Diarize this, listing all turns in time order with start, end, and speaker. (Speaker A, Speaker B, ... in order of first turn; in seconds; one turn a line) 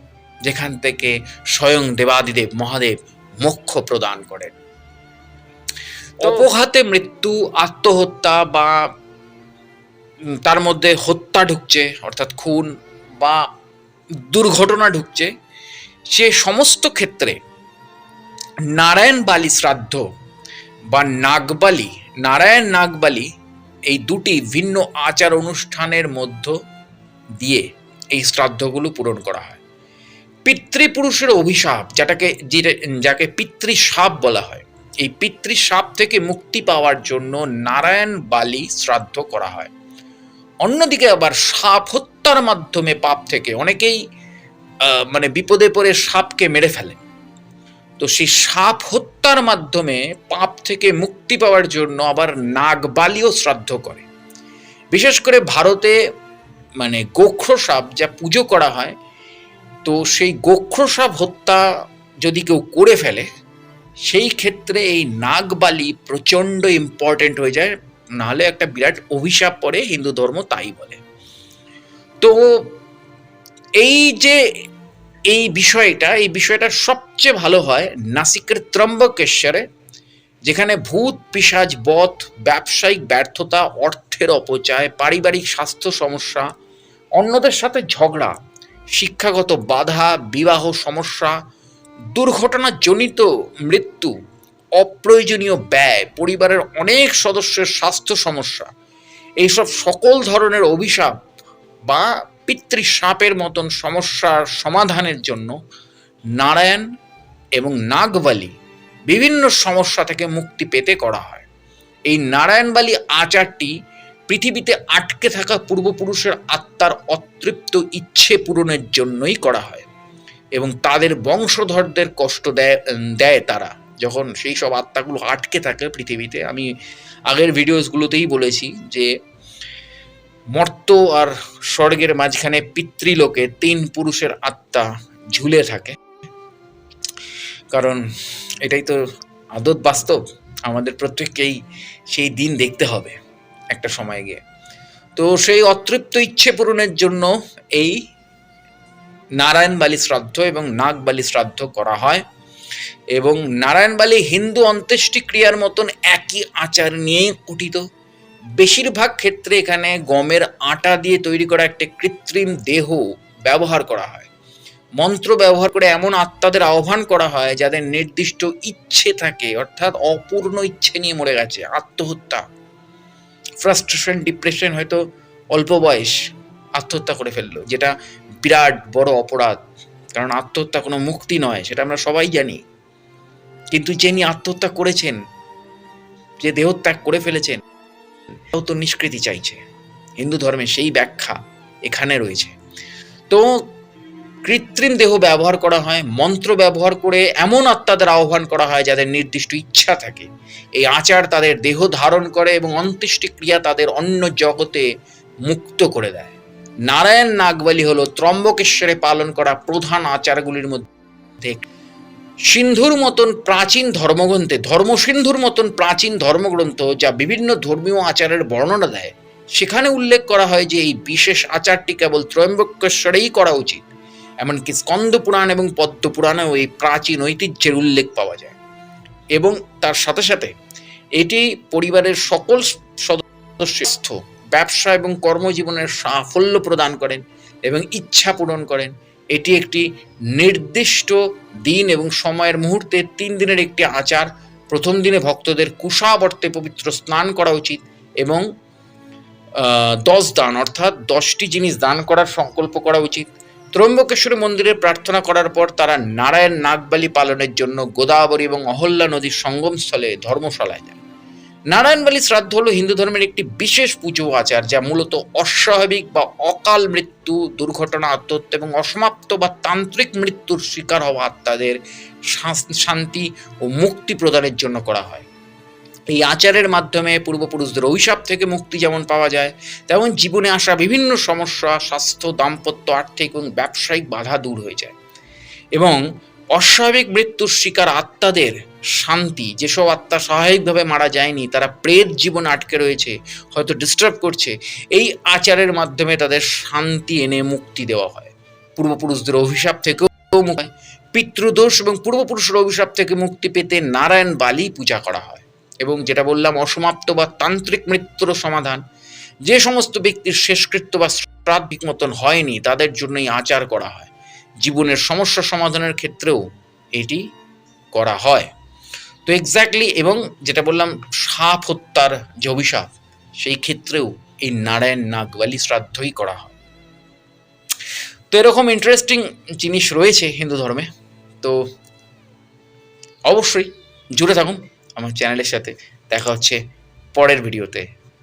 Speaker A: 0.4-4.5
Speaker A: 6.2-8.8
Speaker A: 10.4-13.4
Speaker A: 14.2-15.3
Speaker A: 16.1-17.4
Speaker A: 18.7-20.0
Speaker A: 20.9-23.3
Speaker A: 23.9-26.5
Speaker A: 27.4-29.6
Speaker A: 30.4-39.7
Speaker A: 40.6-44.0
Speaker A: 44.9-47.0
Speaker A: 48.0-54.0
Speaker A: 54.9-56.0
Speaker A: 56.8-58.9
Speaker A: 59.8-61.6
Speaker A: 62.2-63.2
Speaker A: 64.0-71.0
Speaker A: 72.2-72.7
Speaker A: 73.8-74.4
Speaker A: 75.3-79.6
Speaker A: 80.5-86.5
Speaker A: 87.2-88.3
Speaker A: 88.9-91.4
Speaker A: 92.1-94.1
Speaker A: 94.8-98.7
Speaker A: 99.4-101.1
Speaker A: 101.9-105.5
Speaker A: 106.4-106.8
Speaker A: 107.6-108.5
Speaker A: 109.1-111.5
Speaker A: 112.1-113.7
Speaker A: 114.3-119.9
Speaker A: 120.5-126.7
Speaker A: 127.3-129.1
Speaker A: 130.5-136.0
Speaker A: 137.7-138.0
Speaker A: 138.6-139.0
Speaker A: 139.5-141.6
Speaker A: 142.1-143.2
Speaker A: 143.7-144.4
Speaker A: 145.2-148.0
Speaker A: 149.4-152.2
Speaker A: 153.1-157.8
Speaker A: 158.6-164.3
Speaker A: 165.0-172.4
Speaker A: 173.6-175.0
Speaker A: 175.5-176.2
Speaker A: 176.8-179.6
Speaker A: 180.1-182.6
Speaker A: 183.7-185.2
Speaker A: 186.4-187.6
Speaker A: 188.5-189.6
Speaker A: 190.2-192.6
Speaker A: 193.3-193.7
Speaker A: 194.4-204.8
Speaker A: 205.4-206.3
Speaker A: 206.9-211.7
Speaker A: 212.5-223.9
Speaker A: 224.4-228.6
Speaker A: 229.3-230.5
Speaker A: 231.2-248.4
Speaker A: 249.6-261.0
Speaker A: 261.7-275.3
Speaker A: 276.1-284.9
Speaker A: 285.8-308.8
Speaker A: 309.4-314.1
Speaker A: 314.6-316.4
Speaker A: 316.9-317.2
Speaker A: 317.9-318.5
Speaker A: 319.2-326.5
Speaker A: 328.3-330.9
Speaker A: 333.3-336.6
Speaker A: 337.1-337.8